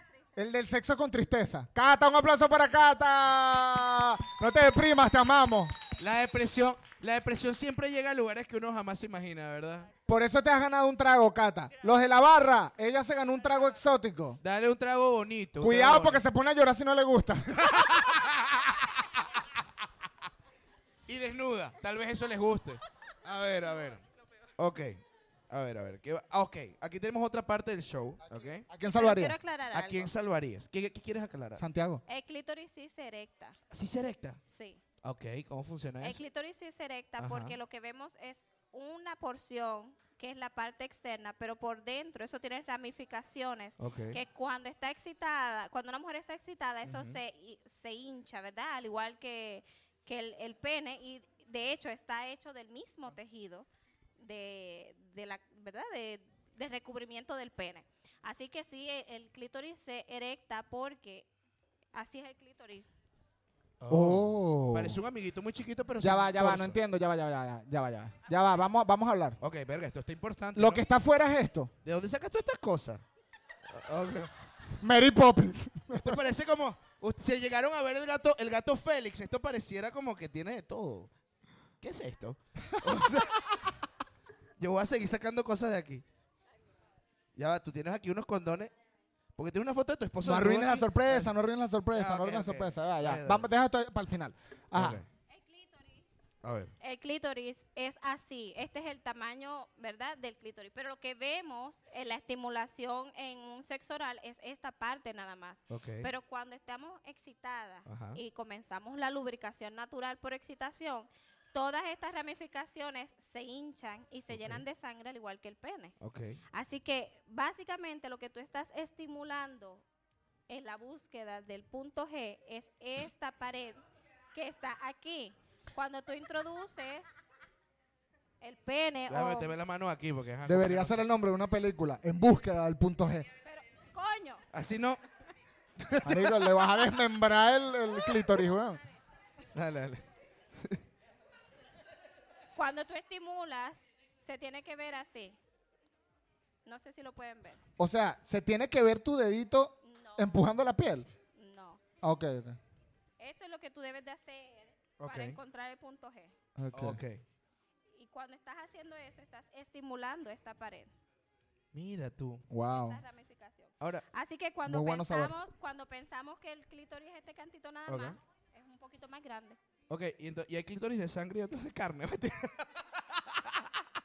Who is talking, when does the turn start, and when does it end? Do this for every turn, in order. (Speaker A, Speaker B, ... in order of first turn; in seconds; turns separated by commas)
Speaker A: 0.3-5.8, Speaker B: 6.0-9.9, Speaker A: 10.1-14.4, Speaker B: 14.4-16.2, Speaker A: 15.6-18.0, Speaker B: 17.7-18.6, Speaker B: 21.1-24.0, Speaker B: 24.6-28.6, Speaker A: 28.7-29.3, Speaker C: 28.9-30.1, Speaker B: 29.7-31.6, Speaker A: 31.6-32.0, Speaker C: 32.1-33.5, Speaker B: 33.7-34.4, Speaker C: 34.5-34.8, Speaker B: 35.0-36.2, Speaker C: 36.0-53.7, Speaker B: 37.2-37.5, Speaker B: 43.8-44.2, Speaker B: 46.9-47.2, Speaker C: 54.2-61.3, Speaker C: 61.9-62.9, Speaker B: 63.8-66.8, Speaker A: 63.9-65.0, Speaker A: 66.0-69.4, Speaker B: 69.4-70.8, Speaker A: 70.5-71.7, Speaker B: 71.8-73.0, Speaker B: 73.7-74.3, Speaker A: 74.8-76.2, Speaker B: 75.9-81.1, Speaker B: 81.8-83.5, Speaker B: 84.6-86.0, Speaker B: 87.3-88.7, Speaker B: 89.3-91.3, Speaker A: 90.2-95.0, Speaker B: 91.9-93.5, Speaker B: 94.7-95.0, Speaker C: 95.3-96.0, Speaker B: 96.4-96.7, Speaker C: 96.8-115.9, Speaker B: 105.7-106.1, Speaker B: 107.9-108.2, Speaker B: 114.3-114.6, Speaker B: 116.0-116.4, Speaker C: 116.5-119.8, Speaker C: 120.5-123.8, Speaker C: 124.3-127.1, Speaker C: 128.4-129.5, Speaker B: 129.1-131.1, Speaker A: 130.4-133.3, Speaker C: 133.4-134.4, Speaker B: 134.5-135.0, Speaker A: 135.9-138.8, Speaker B: 136.0-136.5, Speaker B: 139.5-140.0, Speaker C: 142.6-145.4, Speaker C: 146.6-147.6, Speaker A: 147.8-151.1, Speaker C: 149.8-150.4, Speaker C: 151.3-151.8, Speaker A: 152.0-152.6, Speaker C: 153.2-156.3, Speaker B: 155.0-155.4, Speaker A: 156.6-157.0, Speaker B: 156.7-157.2, Speaker C: 157.9-160.9, Speaker B: 161.7-162.4, Speaker A: 162.5-163.0, Speaker C: 162.8-169.6, Speaker B: 163.8-164.0, Speaker A: 164.7-165.3, Speaker B: 167.9-168.2, Speaker B: 169.9-173.8